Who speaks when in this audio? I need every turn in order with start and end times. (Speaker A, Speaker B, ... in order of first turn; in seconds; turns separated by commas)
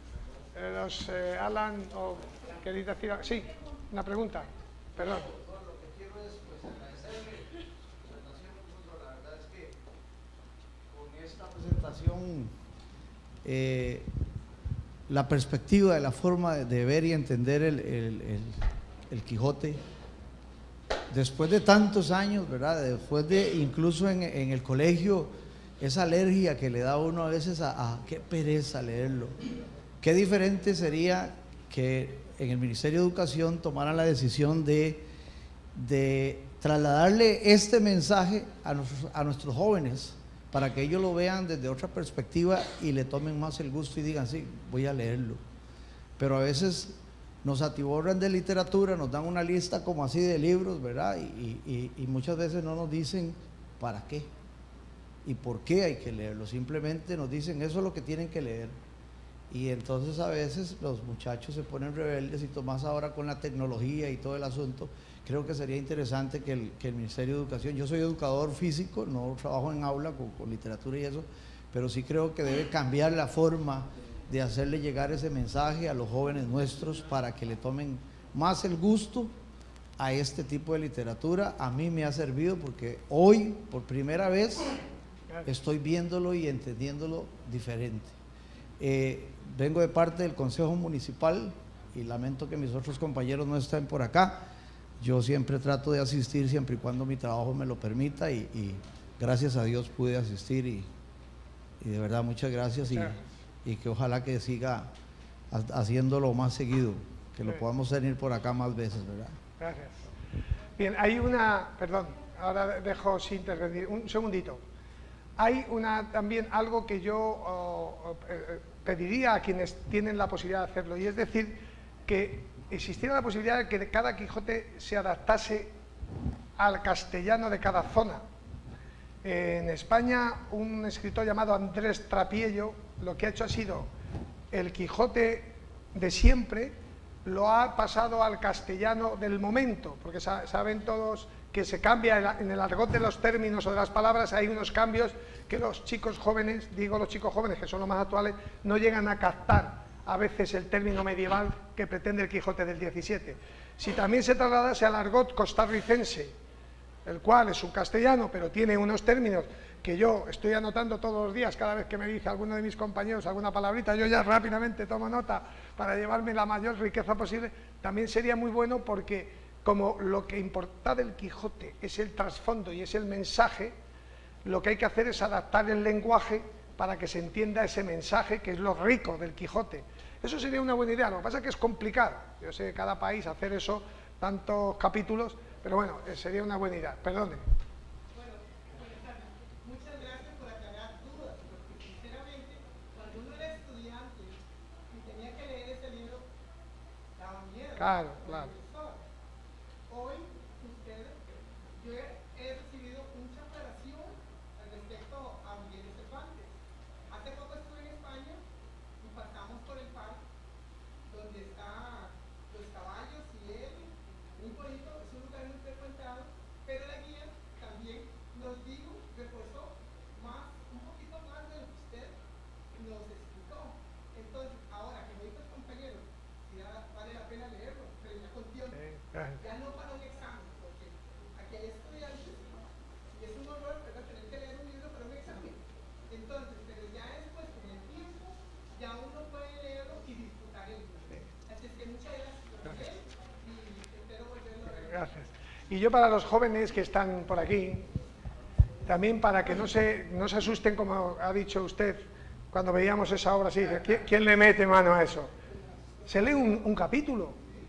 Speaker A: 0.5-5.4, Speaker B: 6.0-7.0, Speaker B: 8.2-9.7, Speaker B: 10.9-12.5, Speaker B: 13.4-14.1, Speaker B: 15.1-19.8, Speaker B: 21.1-29.5, Speaker B: 30.0-35.0, Speaker B: 35.7-45.4, Speaker B: 46.2-54.3, Speaker B: 55.2-58.8, Speaker B: 59.5-79.3, Speaker B: 80.0-84.7, Speaker B: 85.4-88.2, Speaker B: 88.8-94.4, Speaker B: 95.0-100.9, Speaker B: 101.8-104.9, Speaker A: 102.9-103.2, Speaker B: 105.5-109.4, Speaker A: 109.6-110.1, Speaker A: 110.8-114.6, Speaker A: 115.4-125.7, Speaker A: 126.6-128.2, Speaker A: 129.2-133.9, Speaker A: 134.5-156.3, Speaker A: 157.1-173.8, Speaker A: 174.4-187.4, Speaker C: 188.1-194.4, Speaker C: 194.9-196.3, Speaker C: 197.2-199.0, Speaker A: 197.8-198.5, Speaker C: 199.9-206.6, Speaker C: 207.1-208.4, Speaker C: 209.0-210.2, Speaker C: 211.1-222.2, Speaker C: 222.7-228.8, Speaker A: 228.7-229.4, Speaker C: 229.3-232.6, Speaker C: 233.1-245.2, Speaker A: 244.8-247.9, Speaker A: 248.9-255.3, Speaker A: 256.1-257.4